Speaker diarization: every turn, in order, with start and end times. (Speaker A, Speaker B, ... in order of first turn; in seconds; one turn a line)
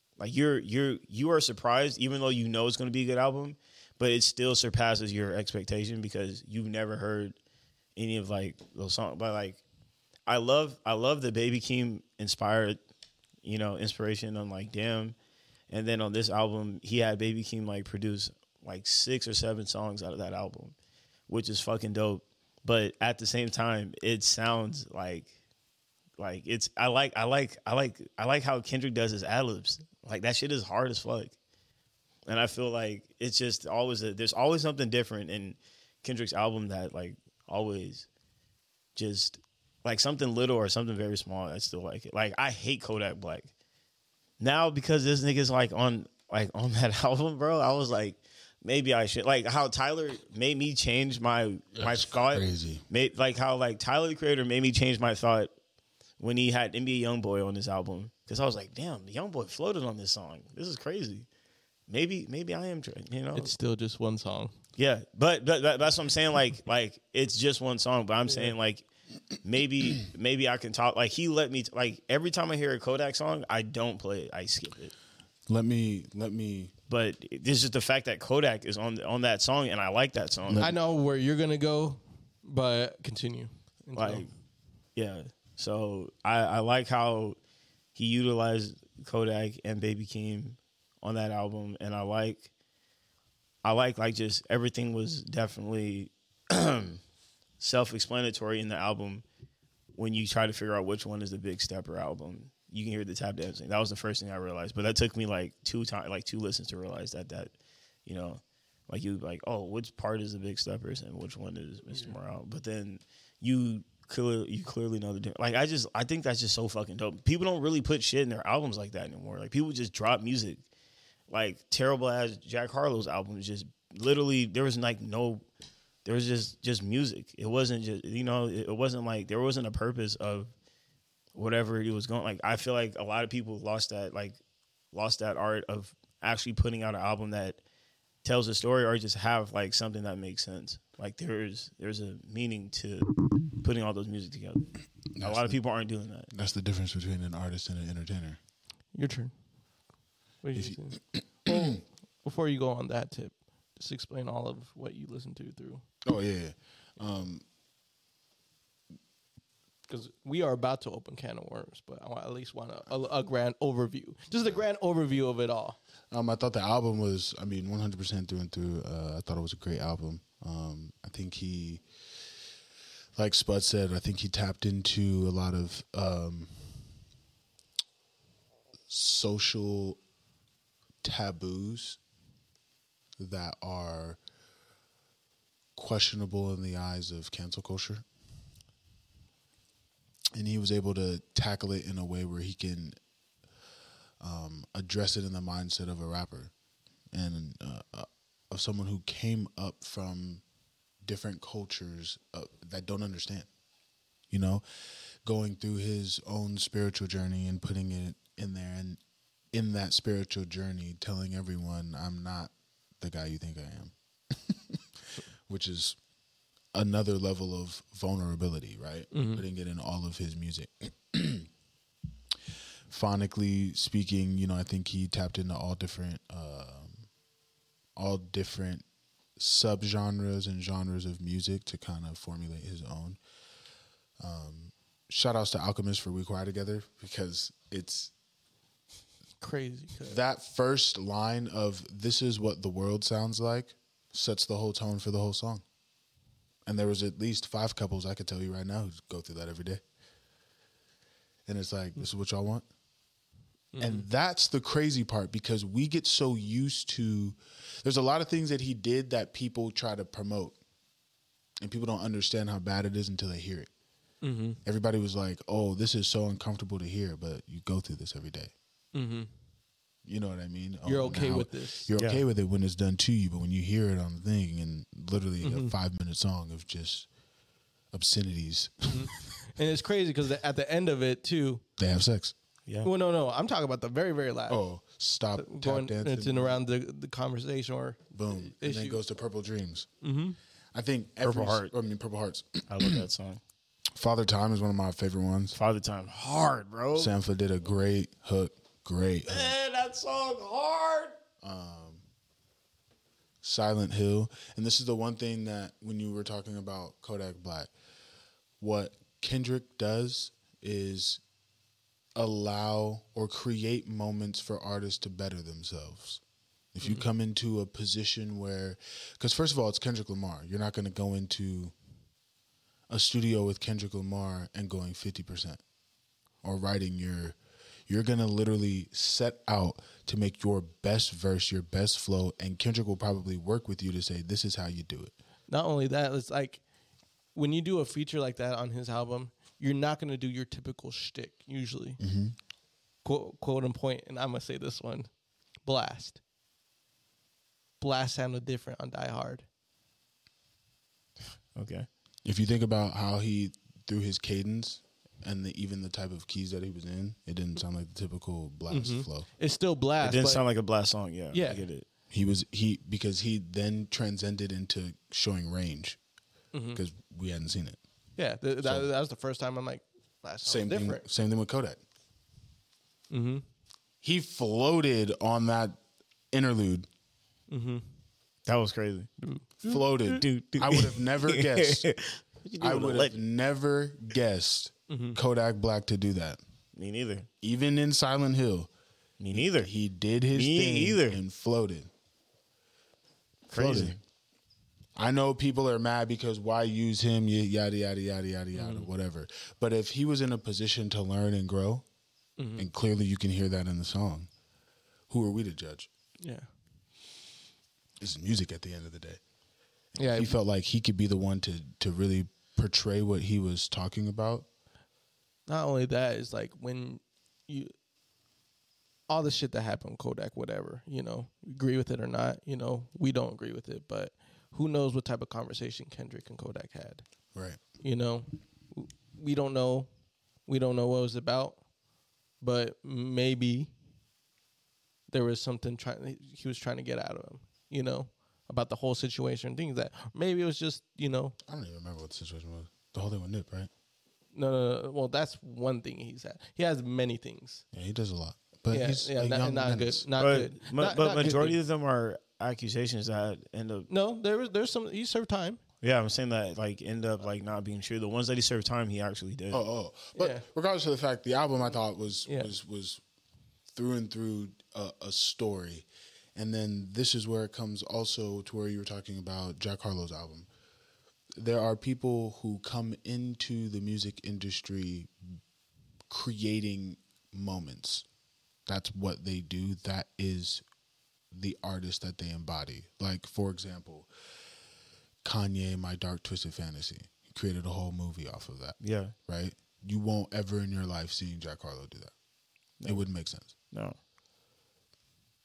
Speaker A: 0.2-7.4
Speaker A: 8.0-9.6
Speaker A: 10.3-12.8
Speaker A: 13.4-15.2
Speaker A: 15.7-20.7
Speaker A: 21.3-25.3
Speaker A: 26.2-31.4
Speaker A: 32.3-38.1
Speaker A: 39.0-43.5
Speaker A: 44.4-55.5
Speaker B: 51.8-52.8
Speaker A: 56.2-61.3
Speaker A: 61.9-63.5
Speaker C: 63.3-64.5
Speaker A: 64.8-68.9
Speaker C: 68.2-68.5
Speaker A: 69.4-74.9
Speaker B: 75.5-76.7
Speaker A: 76.9-80.7
Speaker B: 80.5-80.7
Speaker C: 80.6-84.3
Speaker A: 84.0-84.3
Speaker A: 85.0-87.4
Speaker A: 88.0-92.5
Speaker A: 93.6-97.0
Speaker A: 97.6-99.2
Speaker A: 100.0-107.5
Speaker A: 108.0-120.6
Speaker A: 121.3-125.5
Speaker A: 126.0-130.5
Speaker A: 131.3-134.4
Speaker A: 134.9-137.6
Speaker A: 138.2-146.3
Speaker B: 145.1-145.6
Speaker B: 146.3-148.4
Speaker C: 148.9-149.3
Speaker C: 150.4-155.8
Speaker B: 150.6-151.8
Speaker B: 156.1-157.4
Speaker C: 159.9-165.8
Speaker B: 166.1-171.8
Speaker B: 173.2-176.5
Speaker B: 178.9-180.0
Speaker B: 181.0-182.0
Speaker B: 183.2-184.2
Speaker B: 185.8-188.1
Speaker B: 190.3-193.0
Speaker B: 194.2-196.5
Speaker B: 197.1-200.4
Speaker B: 201.0-203.5
Speaker B: 204.3-204.6
Speaker B: 205.2-209.0
Speaker B: 209.5-214.8
Speaker B: 215.5-216.0
Speaker B: 216.7-221.5
Speaker C: 219.1-219.4
Speaker B: 222.9-227.1
Speaker B: 227.9-228.8
Speaker B: 229.4-233.2
Speaker B: 234.2-238.1
Speaker C: 239.4-240.2
Speaker B: 240.1-245.6
Speaker B: 246.7-249.8
Speaker B: 251.4-252.7
Speaker C: 253.7-254.1
Speaker B: 253.8-260.6
Speaker B: 261.6-263.7
Speaker C: 264.2-264.6
Speaker B: 264.6-268.5
Speaker C: 268.9-269.3
Speaker B: 270.1-277.1
Speaker C: 270.8-271.9
Speaker A: 272.0-272.2
Speaker C: 275.4-275.7
Speaker B: 277.9-279.1
Speaker C: 278.9-281.6
Speaker B: 281.8-282.3
Speaker C: 282.8-284.6
Speaker B: 284.5-286.6
Speaker C: 285.4-289.0
Speaker B: 288.1-289.9
Speaker C: 290.0-290.4
Speaker B: 290.7-293.1
Speaker A: 291.2-291.7
Speaker A: 292.7-293.4
Speaker B: 293.9-295.6
Speaker A: 295.5-297.1
Speaker B: 296.9-299.6
Speaker A: 299.3-301.2
Speaker B: 301.4-302.0
Speaker B: 303.4-307.7
Speaker B: 308.6-311.2
Speaker B: 312.2-316.2
Speaker B: 316.7-321.7
Speaker B: 322.9-325.6
Speaker B: 326.4-327.4
Speaker B: 327.9-335.1
Speaker C: 335.5-336.6
Speaker C: 337.3-342.0
Speaker B: 342.0-342.4
Speaker C: 343.0-345.1
Speaker C: 345.6-346.2
Speaker C: 347.8-349.4
Speaker A: 351.6-351.9
Speaker B: 352.2-359.3
Speaker C: 358.7-360.4
Speaker A: 360.0-361.9
Speaker C: 361.3-361.6
Speaker B: 362.1-366.0
Speaker C: 366.5-366.8
Speaker B: 366.7-367.8
Speaker C: 368.2-371.1
Speaker B: 368.6-368.9
Speaker B: 370.4-371.8
Speaker C: 373.1-373.4
Speaker B: 374.0-375.8
Speaker B: 376.3-376.9
Speaker C: 377.5-377.8
Speaker A: 378.4-379.1
Speaker B: 379.6-381.9
Speaker A: 379.7-383.2
Speaker B: 382.6-386.4
Speaker C: 384.9-385.2
Speaker A: 386.7-387.3
Speaker B: 387.4-388.7
Speaker A: 389.2-389.7
Speaker B: 389.3-391.9
Speaker A: 390.3-391.2
Speaker A: 393.5-394.0
Speaker B: 393.5-394.0
Speaker B: 394.9-401.8
Speaker C: 398.6-398.8
Speaker C: 402.4-402.7
Speaker B: 402.6-404.3
Speaker B: 405.1-405.9
Speaker C: 406.2-406.5
Speaker B: 408.0-409.2
Speaker C: 409.9-410.4
Speaker B: 410.1-414.5
Speaker C: 415.5-417.7
Speaker C: 419.1-427.0
Speaker B: 427.3-427.6
Speaker C: 427.8-429.9
Speaker C: 430.5-431.6
Speaker C: 432.4-433.7
Speaker C: 435.1-441.4
Speaker B: 441.4-443.7
Speaker C: 444.3-447.6
Speaker B: 447.7-450.0
Speaker C: 448.7-451.6
Speaker A: 450.2-453.9
Speaker C: 453.9-455.6
Speaker A: 455.8-459.6
Speaker B: 459.5-463.0
Speaker C: 460.1-460.4
Speaker C: 462.3-462.5
Speaker B: 463.7-470.5
Speaker B: 471.4-475.1
Speaker B: 476.1-478.1
Speaker B: 478.7-480.6
Speaker B: 481.3-484.1
Speaker B: 485.2-492.1
Speaker A: 488.8-489.1
Speaker A: 492.8-493.1
Speaker B: 492.8-493.5
Speaker A: 493.7-494.0